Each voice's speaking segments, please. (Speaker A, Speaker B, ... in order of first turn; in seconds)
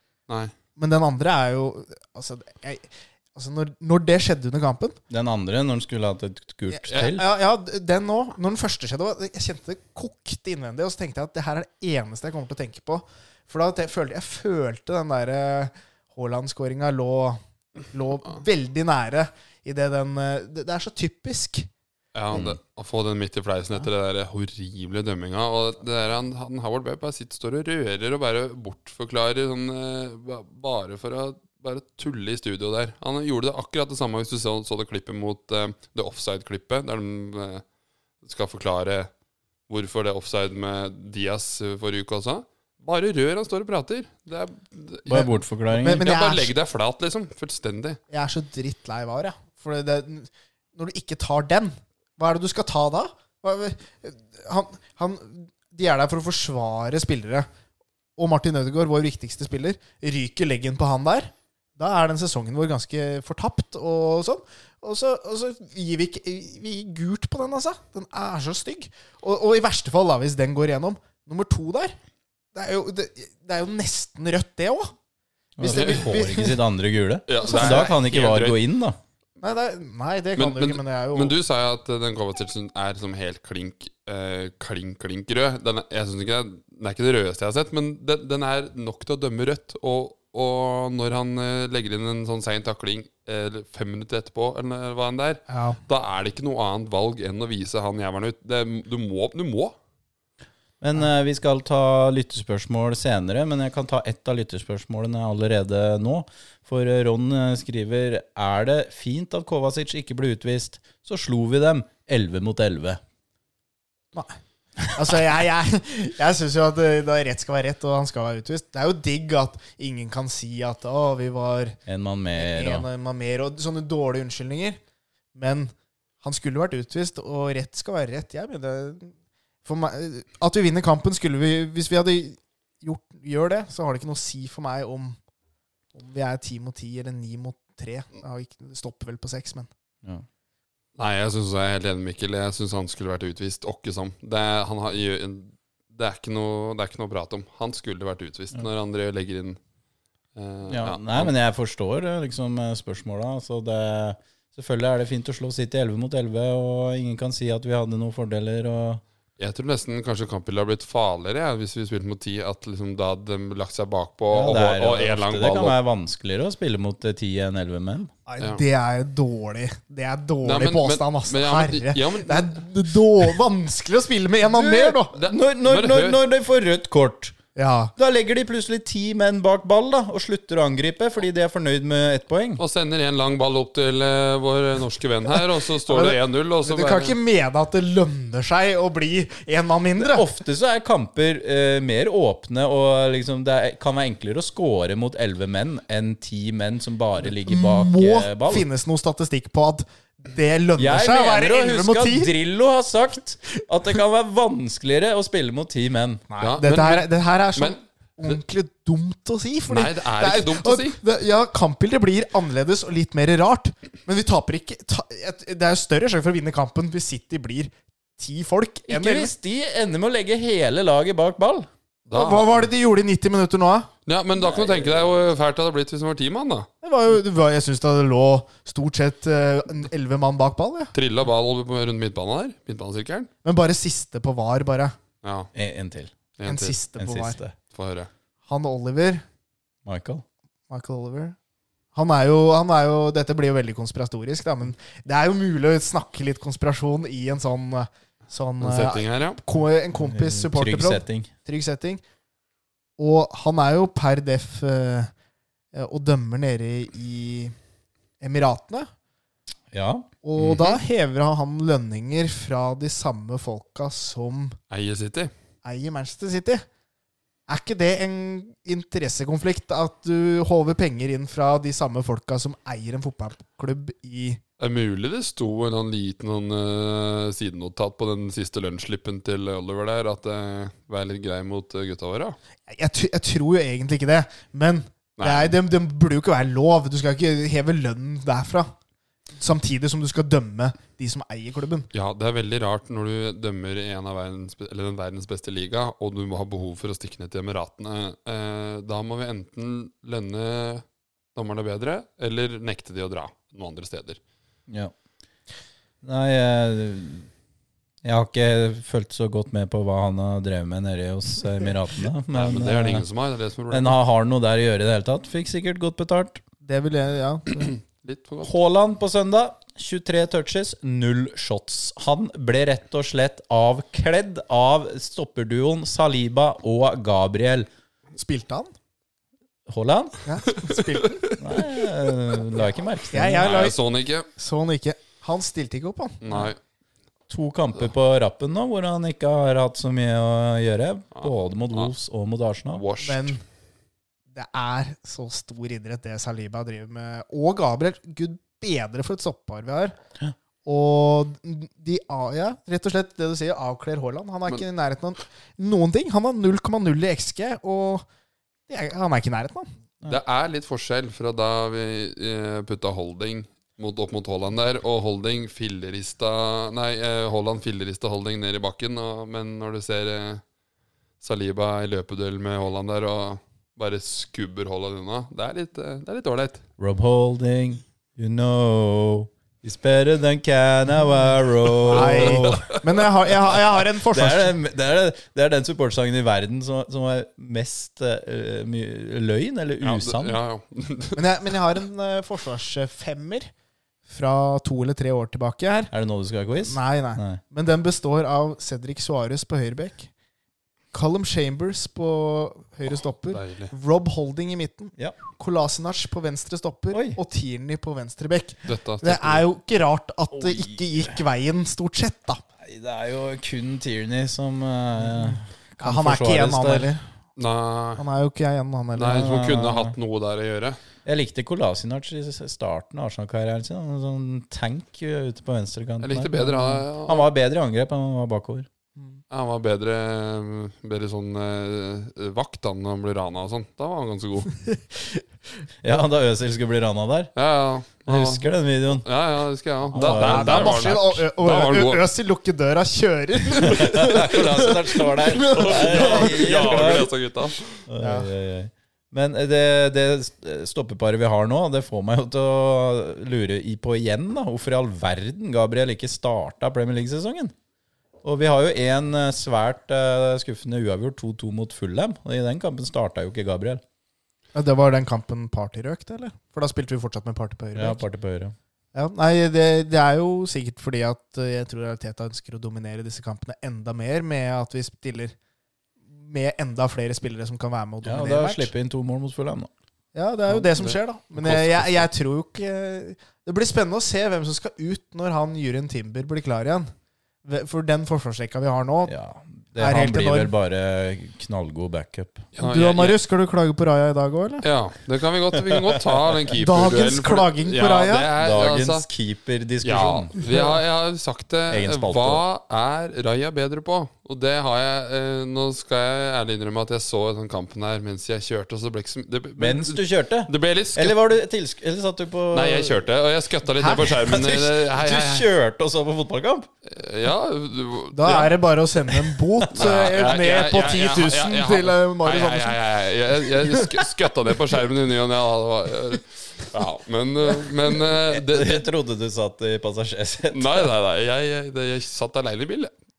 Speaker A: 0.3-0.5, 22.1-37.6, 38.2-39.1, 39.7-45.2, 45.8-48.0, 75.6-76.1, 77.3-78.6, 80.4-99.8, 140.9-149.6, 150.3-151.3, 159.4-165.8, 170.4-172.7, 175.0-176.2, 182.6-187.2, 206.4-208.4, 209.7-211.0, 222.1-222.7, 224.1-226.7, 230.9-233.3, 235.2-235.5, 236.4-236.7, 237.7-238.1, 248.6-249.4, 260.4-260.8, 264.7-265.3, 274.6-282.4, 285.2-285.5, 291.9-304.2, 312.3-314.0, 317.6-318.5, 330.5-331.6, 333.4-334.3, 336.2-336.6, 341.1-341.9, 342.7-343.4, 360.1-370.4, 371.2-376.6, 381.9-382.8, 389.8-391.2, 403.3-403.7, 408.6-409.4, 417.4-418.0, 418.9-420.8, 426.0-427.3, 429.3-434.5, 437.4-442.0, 445.4-447.6, 480.5-482.1, 492.6-493.2, 494.6-499.1, 499.8-511.2, 512.5-515.5, 516.8-518.5, 519.7-528.8, 530.5-532.9
Speaker B: 0.8-5.0, 6.7-17.4, 17.9-21.7, 45.1-46.5, 48.1-57.5, 58.2-72.0, 72.5-74.9, 75.6-76.6, 77.4-78.0, 79.4-81.3, 95.5-95.8, 114.1-121.8, 122.3-124.8, 125.3-129.1, 129.6-135.2, 135.9-139.7, 168.3-175.1, 177.6-177.9, 185.4-190.3, 197.3-202.3, 206.3-219.3, 222.1-223.9, 226.8-230.9, 233.4-234.9, 236.4-237.4, 238.5-239.2, 240.7-241.3, 241.9-252.0, 253.0-255.1, 255.7-257.5, 258.2-258.9, 260.2-264.6, 265.6-266.6, 267.5-274.4, 282.7-288.7, 289.4-291.9, 316.6-317.7, 328.2-328.7, 330.2-331.2, 333.1-333.8, 334.4-336.5, 343.0-343.4, 344.3-349.9, 350.6-358.1, 358.7-359.7, 381.9-384.6, 391.1-393.5, 394.1-395.9, 396.6-400.1, 400.9-412.4, 415.0-417.1, 418.0-419.3, 439.9-447.0, 448.0-448.3, 464.5-468.0, 468.9-475.3, 476.1-478.7, 480.1-486.9, 487.4-489.1, 489.8-490.5, 492.6-494.6, 496.6-498.3, 518.1-522.8, 523.5-524.1
Speaker C: 5.1-7.2, 22.3-22.6, 45.0-46.1, 75.6-79.0, 100.8-113.0, 121.8-122.8, 150.7-159.0, 164.3-168.1, 174.6-177.4, 177.9-182.6, 190.0-198.7, 200.8-206.2, 218.9-221.7, 235.5-236.1, 237.0-237.5, 239.8-240.2, 249.9-251.3, 259.7-260.1, 304.7-304.9, 306.0-307.3, 308.0-313.0, 313.7-316.4, 318.4-327.7, 329.7-330.2, 331.4-333.6, 337.3-342.8, 376.8-382.7, 384.1-390.4, 395.9-397.4, 406.9-407.2, 410.3-411.2, 412.6-416.9, 419.1-419.9, 421.0-428.7, 435.8-437.3, 438.1-439.1, 439.9-441.2, 443.6-447.1, 447.9-457.5, 458.2-463.8, 467.7-468.5, 478.0-479.7, 489.1-492.5, 495.7-496.0, 498.4-500.4, 501.7-502.4, 509.6-513.0, 513.8-516.7, 528.0-530.9